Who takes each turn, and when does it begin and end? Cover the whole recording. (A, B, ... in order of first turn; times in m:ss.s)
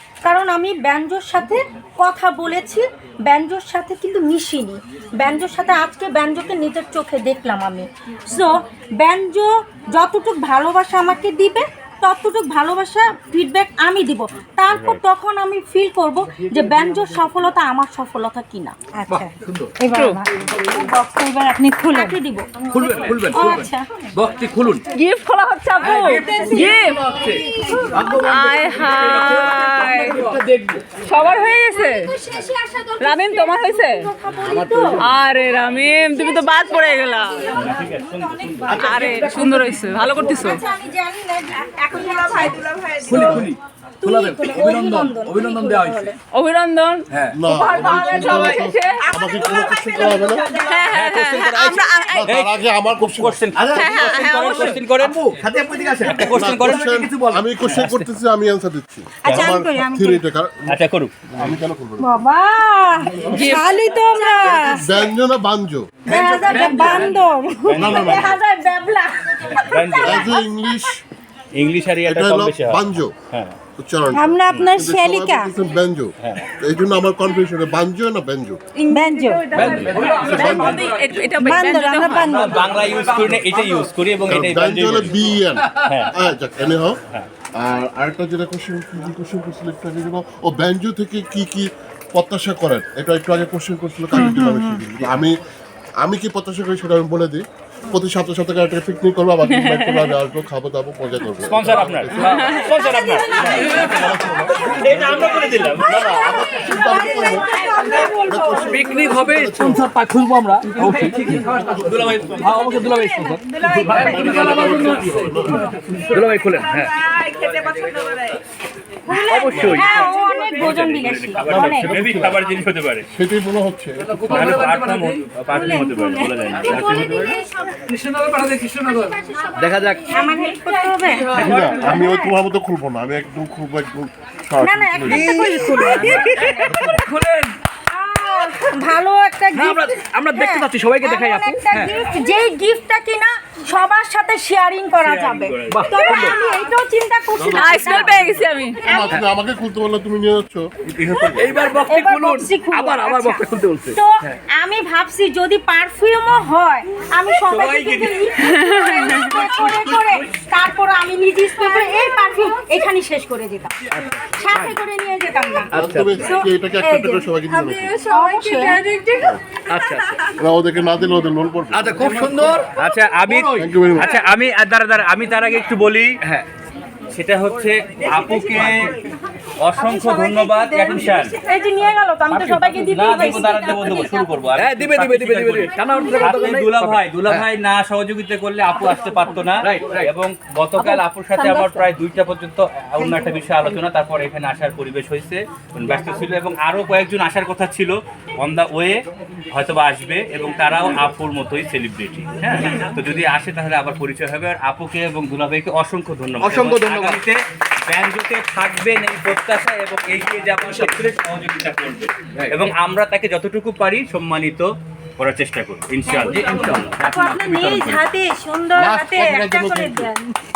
0:00.2-0:18.7 A
0:14.7-0:15.0 B
0:19.0-0:22.2 C
0:19.1-0:19.8 D
0:19.9-0:20.2 E
0:21.9-0:24.1 A
0:22.7-0:24.8 D
0:24.9-0:27.2 E
0:25.8-0:30.9 D
0:26.0-0:28.0 C
0:28.2-0:30.3 E
0:31.0-0:32.1 E
0:31.2-0:39.0 A
0:33.0-0:34.1 E
0:34.5-0:34.9 D
0:35.0-0:37.5 E
0:37.5-0:39.0 B
0:38.6-0:40.0 D
0:38.8-0:40.6 E
0:39.9-0:43.5 A
0:43.0-0:46.1 D
0:44.0-0:46.1 A
0:46.3-0:49.1 E
0:47.1-0:47.5 D
0:47.3-0:50.6 F
0:49.1-0:50.9 A
0:50.6-0:52.2 E
0:50.9-0:52.0 D
0:52.1-0:53.4 F
0:52.2-0:55.4 B
0:53.5-0:57.5 D
0:53.8-0:54.8 E
0:56.0-0:56.9 B
0:56.2-1:00.8 F
0:57.7-0:58.1 B
0:59.2-1:00.2 C
0:59.2-0:59.6 B
1:00.7-1:01.5 B
1:01.4-1:02.1 F
1:02.0-1:04.8 C
1:03.0-1:05.1 A
1:03.3-1:03.7 E
1:04.7-1:06.0 F
1:06.0-1:07.1 A
1:06.1-1:07.2 D
1:06.5-1:08.0 C
1:07.7-1:08.4 B
1:07.7-1:08.3 F
1:07.9-1:10.4 A
1:09.6-1:10.4 B
1:10.0-1:11.0 F
1:11.5-1:13.6 B
1:12.0-1:13.1 F
1:13.8-1:18.6 F
1:14.1-1:15.5 C
1:18.9-1:19.8 C
1:18.9-1:22.3 E
1:19.5-1:21.8 D
1:19.6-1:20.1 B
1:20.3-1:21.0 F
1:21.4-1:22.7 C
1:22.0-1:25.3 B
1:22.7-1:23.8 D
1:24.2-1:27.0 F
1:25.6-1:26.1 D
1:25.8-1:26.2 B
1:27.6-1:35.4 F
1:34.1-1:34.8 C
1:36.0-1:42.8 F
1:41.4-1:43.9 B
1:43.4-1:43.6 A
1:43.4-1:47.5 F
1:43.6-1:44.0 D
1:44.6-1:45.9 B
1:46.1-1:48.3 C
1:46.4-1:48.2 A
1:48.1-1:49.9 F
1:48.7-1:57.0 D
1:48.9-1:49.2 A
1:51.8-1:52.6 B
1:52.8-1:54.4 C
1:53.8-1:54.4 A
1:53.9-1:55.7 F
1:59.1-2:01.9 A
1:59.3-2:00.1 D
1:59.5-1:59.9 B
2:00.5-2:03.1 B
2:01.4-2:02.5 F
2:03.1-2:04.7 F
2:04.0-2:05.2 D
2:04.3-2:07.4 B
2:05.5-2:07.5 A
2:05.6-2:06.2 C
2:06.6-2:10.3 D
2:07.0-2:07.3 C
2:09.0-2:12.4 A
2:10.4-2:10.8 C
2:11.3-2:15.3 F
2:11.5-2:12.0 D
2:14.6-2:17.0 A
2:15.0-2:17.6 D
2:15.3-2:16.6 E
2:17.9-2:29.2 A
2:19.5-2:21.9 D
2:25.0-2:26.2 B
2:25.7-2:26.5 D
2:27.4-2:28.2 F
2:27.5-2:28.8 E
2:28.8-2:30.7 F
2:30.8-2:31.7 B
2:31.2-2:43.7 A
2:31.4-2:34.0 D
2:37.5-2:38.3 B
2:38.6-2:39.4 E
2:39.5-2:40.2 B
2:41.6-2:42.7 C
2:43.9-2:44.8 D
2:44.3-2:46.5 A
2:45.7-2:46.3 D
2:45.7-2:47.9 F
2:46.8-2:49.4 C
2:48.1-2:48.8 A
2:49.7-2:50.2 D
2:50.4-2:52.3 F
2:51.7-2:54.2 D
2:52.7-2:56.2 B
2:53.6-2:54.1 F
2:56.2-2:56.5 D
2:57.1-2:58.9 B
2:59.6-3:01.3 B
2:59.8-3:01.2 C
3:00.9-3:04.4 A
3:02.3-3:19.0 B
3:04.5-3:07.4 D
3:09.6-3:10.1 D
3:10.8-3:11.7 E
3:19.5-3:36.8 B
3:26.4-3:27.2 D
3:30.6-3:31.0 D
3:32.4-3:32.7 D
3:36.1-3:40.3 C
3:36.2-3:38.1 D
3:38.8-3:40.1 F